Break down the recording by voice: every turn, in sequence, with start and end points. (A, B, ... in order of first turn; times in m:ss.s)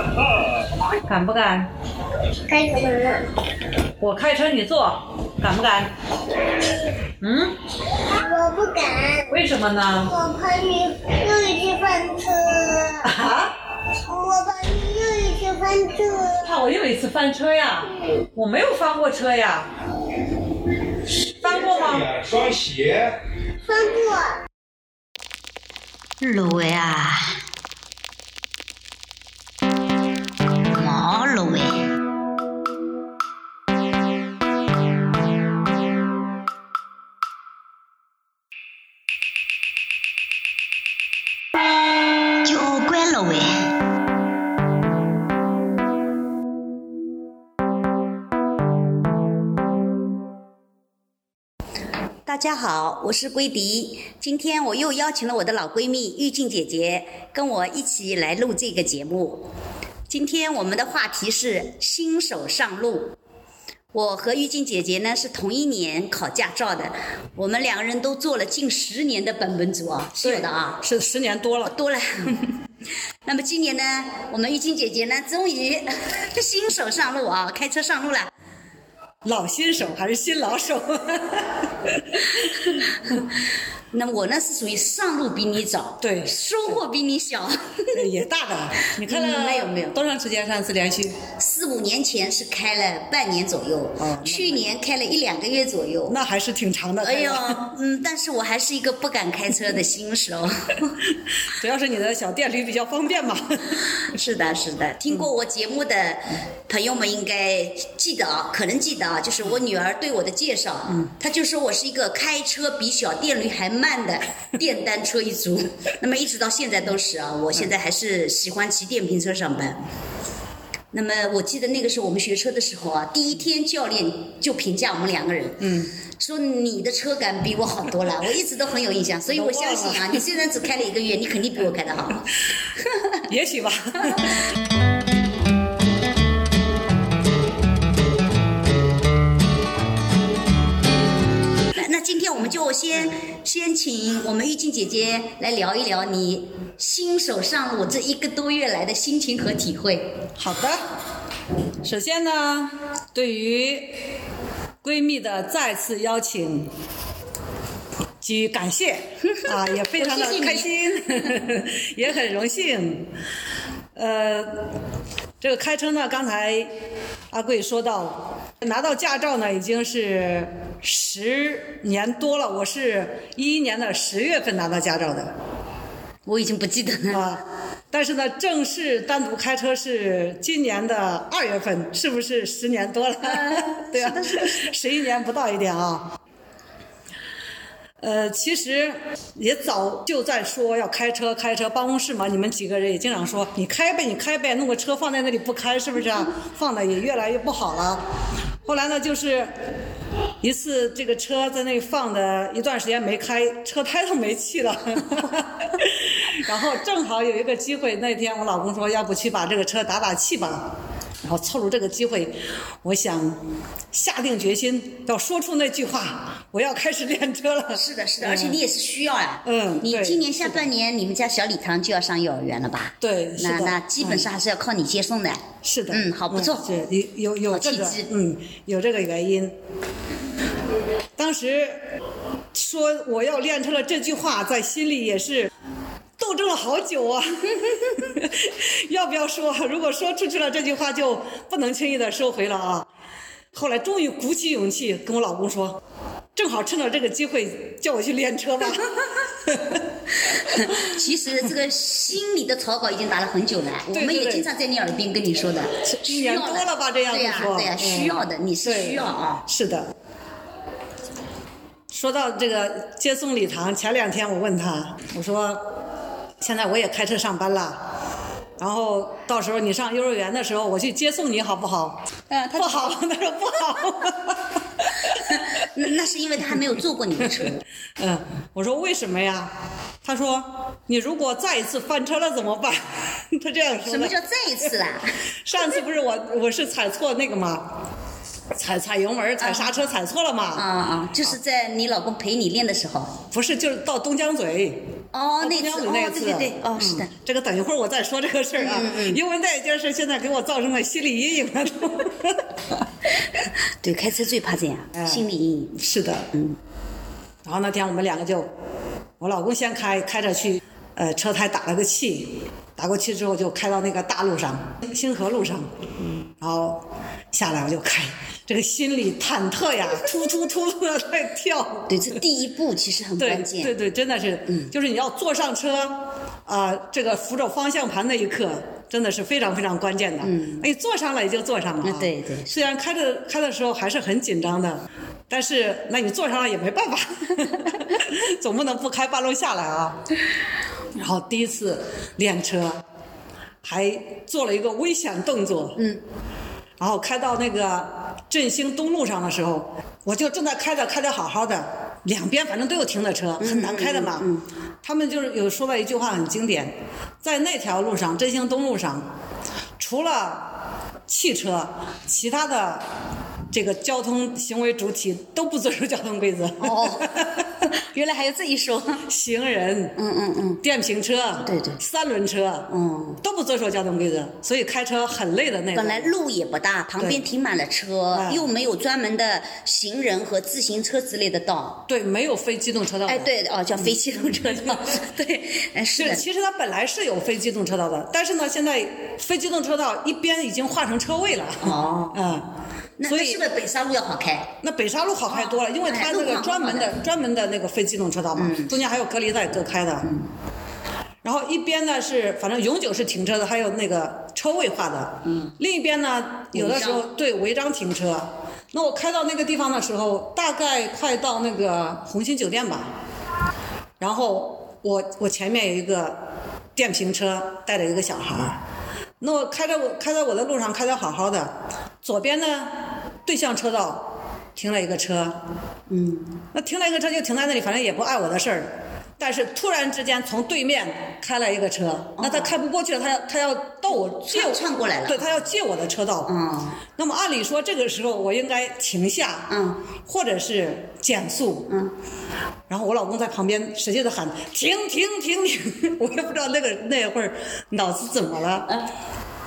0:01.0-0:01.7 A
0:02.5-0:03.3 B
0:04.0-0:05.9 A
0:07.2-0:07.6 A
0:07.9-0:09.3 B
0:09.3-0:10.1 A
0:10.0-0:13.1 B
0:13.0-0:13.6 A
0:13.9-0:16.5 B
0:16.4-0:19.7 A
0:21.4-0:22.2 A
0:23.6-0:24.4 B
0:26.2-0:27.4 C
0:30.7-0:31.8 C
0:42.4-0:43.7 C
0:52.2-0:59.4 C
1:00.1-1:03.1 C
1:03.9-1:10.8 C
1:10.2-1:11.7 A
1:11.6-1:12.6 C
1:13.2-1:18.3 C
1:19.2-1:22.9 A
1:23.9-1:28.0 C
1:26.0-1:26.3 A
1:27.9-1:31.2 A
1:28.8-1:30.0 C
1:31.4-1:36.2 C
1:34.0-1:34.7 A
1:36.1-1:37.7 A
1:37.0-1:41.0 C
1:41.5-1:43.9 A
1:43.8-1:59.8 C
2:00.9-2:12.3 C
2:05.6-2:05.9 A
2:09.3-2:10.2 A
2:12.8-2:13.2 C
2:13.3-2:14.4 A
2:21.7-2:30.1 C
2:30.4-2:30.8 A
2:31.8-2:34.0 A
2:34.8-2:36.7 A
2:38.2-2:43.1 A
2:39.3-2:41.3 C
2:44.0-2:44.8 A
2:45.4-2:46.7 A
2:47.3-2:55.3 A
2:56.2-2:57.2 C
2:57.1-3:06.2 A
3:03.2-3:04.7 C
3:08.0-3:18.0 A
3:18.6-3:19.5 A
3:20.4-3:38.6 A
3:37.7-3:46.6 C
3:39.4-3:40.7 A
3:43.0-3:44.3 A
3:45.6-3:49.6 A
3:47.5-3:48.1 C
3:51.2-3:51.8 A
3:52.5-3:55.5 A
3:56.2-4:02.9 A
4:03.5-4:05.8 A
4:06.4-4:09.8 A
4:10.2-4:19.4 C
4:10.5-4:10.8 A
4:13.9-4:14.5 A
4:15.8-4:19.9 A
4:21.9-4:25.7 A
4:26.4-4:27.8 A
4:28.6-4:32.0 A
4:32.3-4:33.0 C
4:32.5-4:35.2 A
4:35.1-4:37.6 C
4:37.4-4:44.2 A
4:43.8-4:45.2 C
4:45.4-4:47.7 A
4:48.5-4:50.7 A
4:49.4-4:49.7 C
4:50.5-4:53.2 C
4:53.3-4:54.9 A
4:55.1-4:57.1 C
4:55.4-5:02.5 A
4:58.6-4:59.2 C
5:03.4-5:05.8 C
5:04.9-5:05.2 A
5:05.8-5:06.3 A
5:07.4-5:08.5 A
5:09.2-5:15.7 A
5:16.3-5:22.2 A
5:21.9-5:23.7 C
5:23.2-5:40.0 A
5:30.2-5:30.6 C
5:31.8-5:32.5 C
5:40.9-5:42.8 A
5:43.6-5:45.8 A
5:46.8-5:54.3 A
5:53.4-5:54.4 C
5:54.8-5:59.1 A
5:59.8-6:02.9 A
6:03.5-6:07.5 A
6:06.6-6:09.0 C
6:09.1-6:10.0 A
6:10.0-6:10.6 C
6:10.6-6:12.7 A
6:11.4-6:11.8 C
6:12.7-6:13.2 C
6:13.2-6:16.1 A
6:15.7-6:21.8 C
6:17.0-6:17.2 A
6:18.1-6:18.5 A
6:21.9-6:23.3 A
6:23.1-6:26.2 C
6:26.0-6:32.5 A
6:31.6-6:32.3 C
6:33.0-6:34.5 C
6:33.0-6:33.4 A
6:34.6-6:40.1 A
6:35.3-6:36.9 C
6:38.4-6:38.8 C
6:41.2-6:52.9 A
6:45.2-6:45.5 C
6:46.5-6:47.1 C
6:54.0-6:56.2 A
6:56.8-6:58.6 A
6:59.2-7:05.4 A
7:05.9-7:06.3 C
7:06.5-7:16.3 A
7:12.2-7:12.5 C
7:14.2-7:15.4 C
7:16.2-7:16.8 C
7:17.0-7:19.5 A
7:19.5-7:19.8 C
7:20.0-7:21.7 A
7:22.7-7:28.7 A